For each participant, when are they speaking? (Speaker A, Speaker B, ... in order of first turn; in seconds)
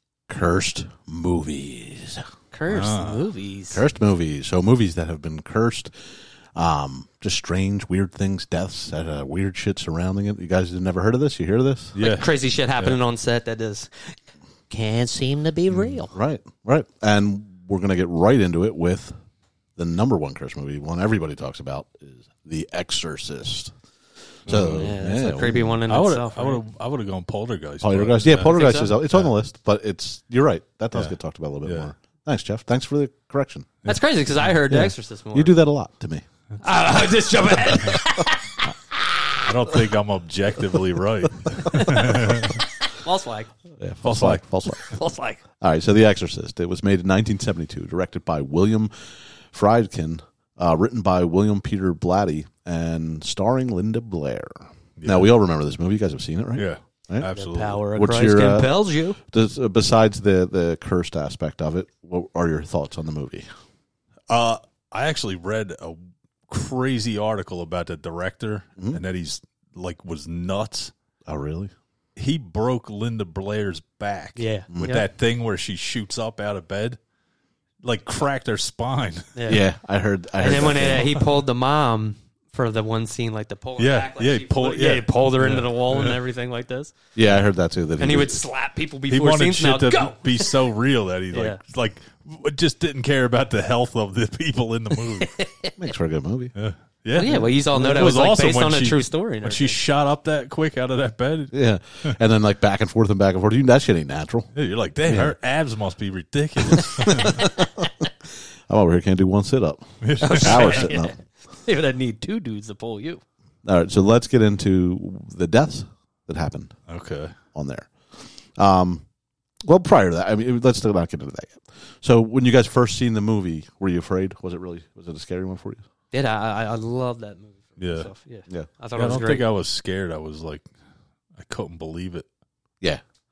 Speaker A: 0.3-2.3, 3.7-5.9, 6.5-11.9, 15.7-19.1, 19.8-23.7, 24.5-25.8, 27.8-33.8, 34.7-36.2, 43.8-44.9, 45.6-57.3, 58.0-63.5, 71.3-71.7, 74.7-75.0, 79.5-81.1, 87.2-88.4, 95.8-96.5, 97.2-98.2, 101.5-104.5, 105.1-105.3, 106.6-108.1, 108.7-111.1, 113.6-116.8, 117.5-117.9, 118.5-119.0, 119.6-125.8
Speaker B: 2.5-3.8, 12.0-14.2, 14.7-16.1, 24.6-26.6, 28.4-29.0, 33.9-35.6, 36.6-39.4, 41.7-43.5, 44.7-45.4, 57.3-59.2, 74.4-75.0, 79.4-79.6, 80.4-87.0, 88.0-90.6, 91.3-91.6, 94.9-95.8, 97.2-99.8, 110.2-113.2, 126.1-129.5
Speaker C: 2.7-3.3, 11.9-13.0, 24.5-24.9, 25.9-29.3, 30.9-31.9, 39.4-42.6, 44.0-44.4, 55.0-55.3, 56.6-57.8, 64.3-66.0, 66.5-70.9, 72.2-77.0, 77.8-79.4, 80.5-81.3, 83.8-86.2, 89.1-95.3, 96.6-102.2, 104.5-107.5, 110.0-110.9, 116.9-117.3, 127.8-128.1, 128.9-130.7, 131.4-132.3